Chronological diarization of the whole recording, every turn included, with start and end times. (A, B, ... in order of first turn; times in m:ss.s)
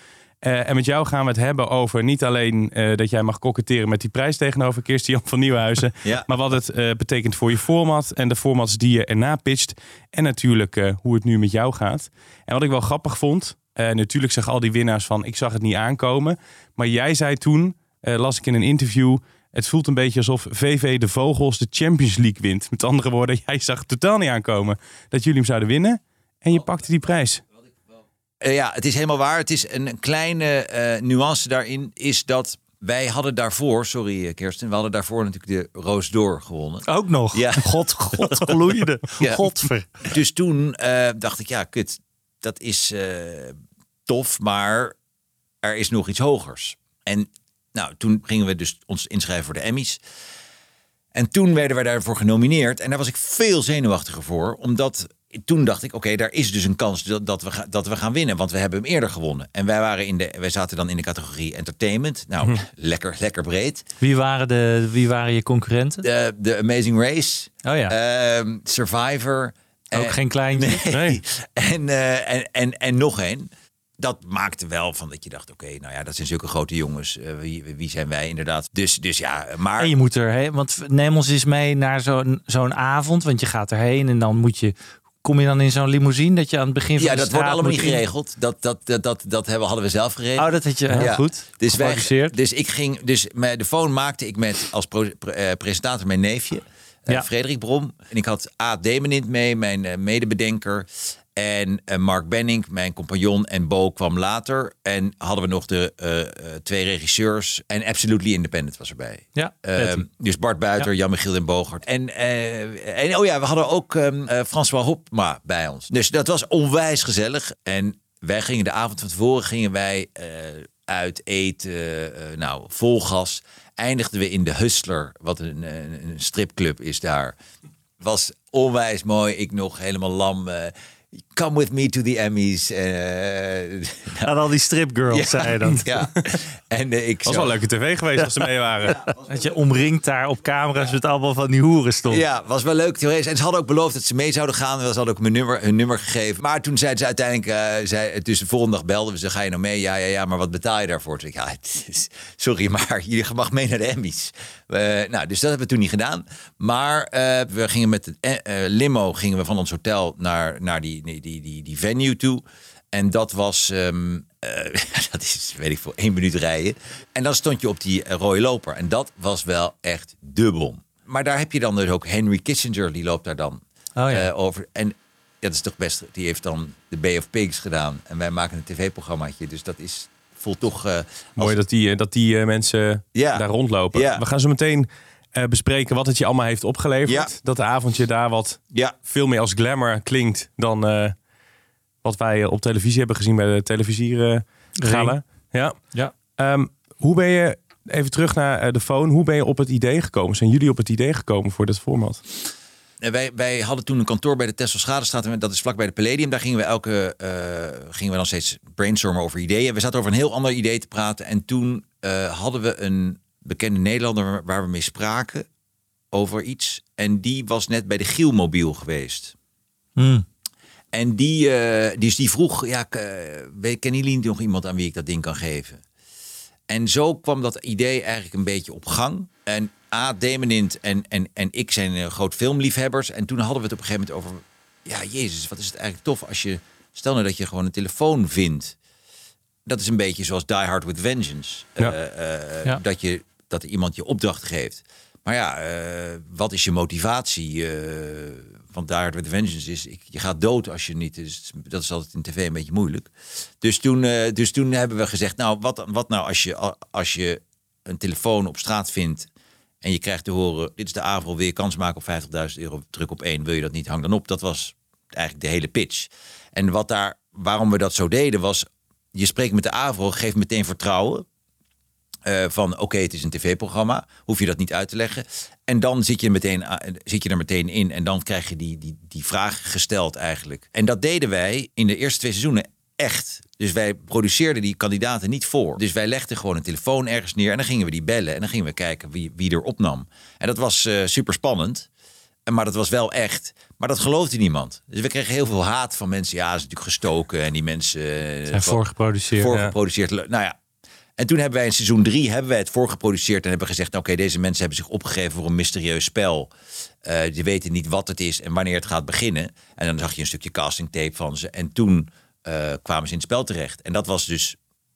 0:00.4-0:27.4 A
0:28.4-0:38.4 B
0:36.9-0:39.9 C
0:39.2-0:39.5 B
0:40.0-0:45.0 B
0:45.6-0:50.0 B
0:51.1-1:03.9 B
1:04.0-1:06.0 C
1:06.0-1:19.9 B
1:07.6-1:08.0 C
1:09.9-1:10.8 C
1:10.9-1:11.2 A
1:19.8-1:28.0 C
1:27.0-2:07.4 B
1:30.4-1:32.4 C
1:49.4-1:50.1 C
2:08.0-2:10.7 B
2:11.3-2:14.3 B
2:14.2-2:15.9 C
2:15.1-2:17.6 B
2:17.3-2:19.0 A
2:18.9-2:22.2 C
2:22.1-3:01.6 B
2:54.0-2:54.3 C
3:01.4-3:11.2 A
3:03.1-3:04.2 B
3:07.1-3:07.3 B
3:12.0-3:22.2 A
3:14.8-3:16.1 C
3:23.0-3:35.5 B
3:36.1-3:39.3 B
3:40.0-3:40.2 C
3:40.9-3:45.8 B
3:46.7-3:58.8 B
3:59.7-4:19.3 B
4:19.8-4:31.3 B
4:32.3-4:51.9 B
4:52.5-5:00.6 B
4:58.5-4:59.5 C
5:01.2-5:06.5 B
5:07.0-5:14.6 B